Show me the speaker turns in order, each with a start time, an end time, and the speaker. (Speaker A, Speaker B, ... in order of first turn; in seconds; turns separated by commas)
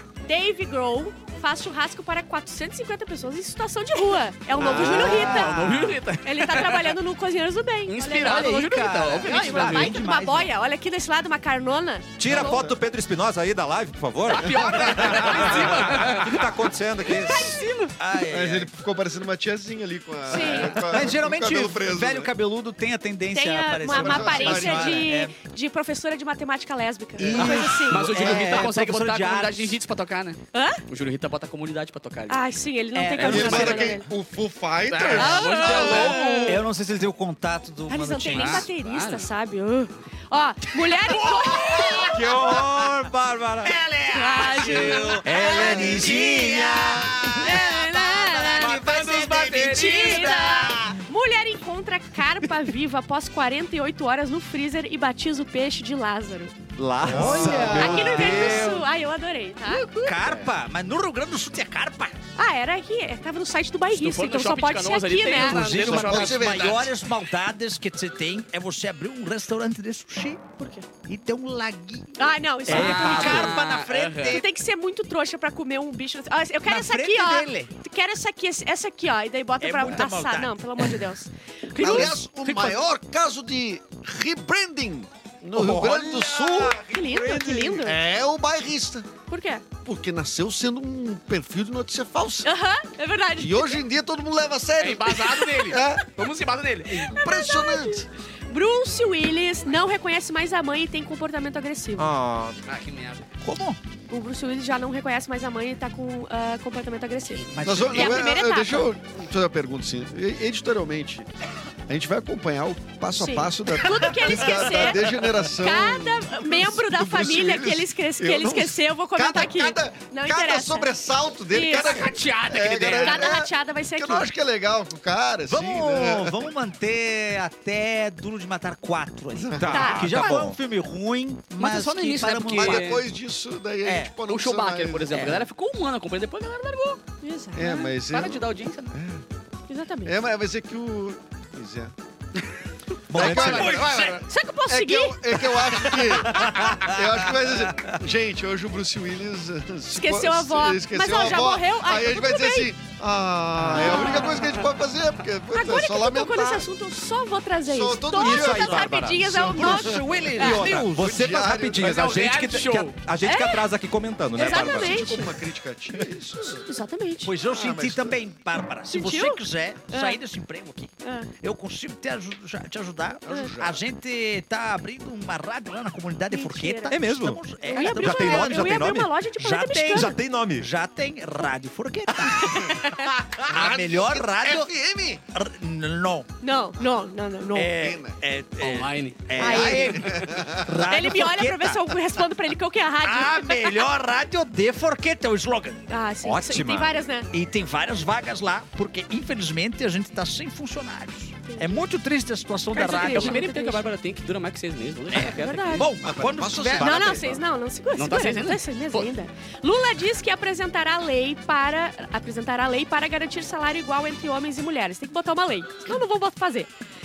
Speaker A: 0.2-12.7, Speaker B: 4.6-7.0, Speaker C: 4.6-6.0, Speaker B: 7.8-10.0, Speaker C: 8.2-10.5, Speaker D: 12.2-17.6, Speaker E: 12.3-12.7, Speaker B: 14.3-17.9, Speaker E: 14.6-15.1, Speaker A: 14.9-15.7, Speaker C: 18.0-18.7, Speaker E: 18.3-22.3, Speaker A: 20.3-20.8, Speaker B: 20.4-20.7, Speaker C: 20.8-25.3, Speaker A: 23.3-28.3, Speaker E: 23.9-25.1, Speaker C: 27.2-29.8, Speaker B: 27.3-32.4, Speaker A: 30.5-30.8, Speaker A: 32.3-34.0, Speaker C: 32.9-34.0, Speaker B: 33.2-33.7, Speaker E: 33.2-36.6, Speaker B: 34.9-36.6, Speaker A: 35.1-36.5, Speaker C: 35.8-38.7, Speaker A: 37.9-42.3, Speaker B: 38.3-39.3, Speaker B: 41.0-42.1, Speaker C: 41.1-42.6, Speaker D: 42.1-43.8, Speaker C: 43.6-51.0, Speaker A: 44.1-46.9, Speaker D: 45.2-47.4, Speaker A: 47.4-48.8, Speaker B: 48.6-50.7, Speaker A: 49.7-56.5, Speaker D: 56.7-58.9, Speaker E: 57.0-58.2, Speaker C: 57.0-58.6, Speaker A: 57.2-60.0, Speaker C: 59.6-62.1, Speaker A: 62.4-65.7, Speaker B: 63.9-66.9, Speaker C: 65.3-70.5, Speaker E: 65.7-66.9, Speaker A: 70.6-70.9, Speaker C: 71.0-74.5, Speaker A: 72.2-73.6, Speaker B: 72.7-74.4, Speaker D: 72.7-73.4, Speaker A: 74.2-82.6, Speaker C: 76.7-77.7, Speaker C: 79.6-80.8, Speaker E: 81.8-86.8, Speaker D: 85.5-87.8, Speaker A: 86.9-88.0, Speaker E: 87.8-89.1, Speaker A: 89.3-89.6, Speaker E: 89.8-92.5, Speaker A: 92.4-93.8, Speaker E: 93.4-96.1, Speaker B: 94.8-97.1, Speaker E: 96.9-98.0, Speaker A: 97.1-102.1, Speaker D: 102.0-102.6, Speaker B: 102.7-103.3, Speaker C: 103.4-103.8, Speaker A: 104.1-108.9, Speaker C: 107.5-108.2, Speaker E: 107.6-111.3, Speaker E: 111.9-126.5, Speaker A: 113.2-120.9, Speaker A: 121.5-122.1, Speaker B: 121.7-123.3, Speaker A: 123.0-124.3, Speaker C: 125.5-133.0, Speaker E: 129.3-130.0, Speaker D: 129.6-130.6, Speaker A: 129.7-130.1, Speaker B: 131.6-133.0, Speaker E: 132.5-135.4, Speaker C: 133.8-134.1, Speaker B: 134.3-137.0, Speaker C: 135.1-135.4, Speaker A: 137.2-137.9, Speaker E: 137.5-139.2, Speaker B: 138.1-138.9, Speaker A: 139.7-140.1, Speaker E: 140.0-141.9, Speaker D: 143.1-143.8, Speaker C: 143.1-144.3, Speaker B: 143.1-144.3, Speaker E: 143.1-143.8, Speaker A: 144.3-145.2, Speaker E: 144.7-156.7, Speaker C: 145.9-148.0, Speaker A: 149.9-152.7, Speaker A: 153.7-154.6, Speaker A: 155.5-160.7, Speaker E: 157.6-160.0, Speaker D: 158.2-159.5, Speaker C: 159.5-161.2, Speaker D: 160.4-165.1, Speaker E: 160.9-162.2, Speaker B: 161.8-162.9, Speaker A: 163.2-163.7, Speaker A: 164.3-165.4, Speaker E: 164.4-166.6, Speaker A: 166.5-167.3, Speaker C: 167.2-178.8, Speaker E: 167.5-168.2, Speaker A: 168.9-170.2, Speaker A: 171.0-171.3, Speaker E: 173.2-173.8, Speaker A: 176.3-177.0, Speaker D: 176.9-179.2, Speaker A: 177.6-180.2, Speaker C: 179.4-182.8, Speaker D: 179.9-180.7, Speaker A: 182.5-183.0, Speaker E: 183.5-185.2, Speaker C: 183.5-184.7, Speaker C: 185.3-186.3, Speaker A: 186.4-187.7, Speaker C: 187.5-191.8, Speaker E: 187.7-188.2, Speaker B: 188.6-189.5, Speaker A: 189.4-190.1, Speaker E: 189.4-190.8, Speaker A: 190.9-193.8, Speaker C: 193.0-195.8, Speaker A: 195.9-197.3, Speaker D: 196.2-197.0, Speaker C: 197.3-203.4, Speaker A: 201.4-201.8, Speaker A: 202.7-203.9, Speaker B: 202.8-205.9, Speaker C: 205.1-207.1, Speaker A: 205.4-205.9, Speaker E: 206.0-207.3, Speaker A: 206.8-216.7, Speaker B: 207.9-209.1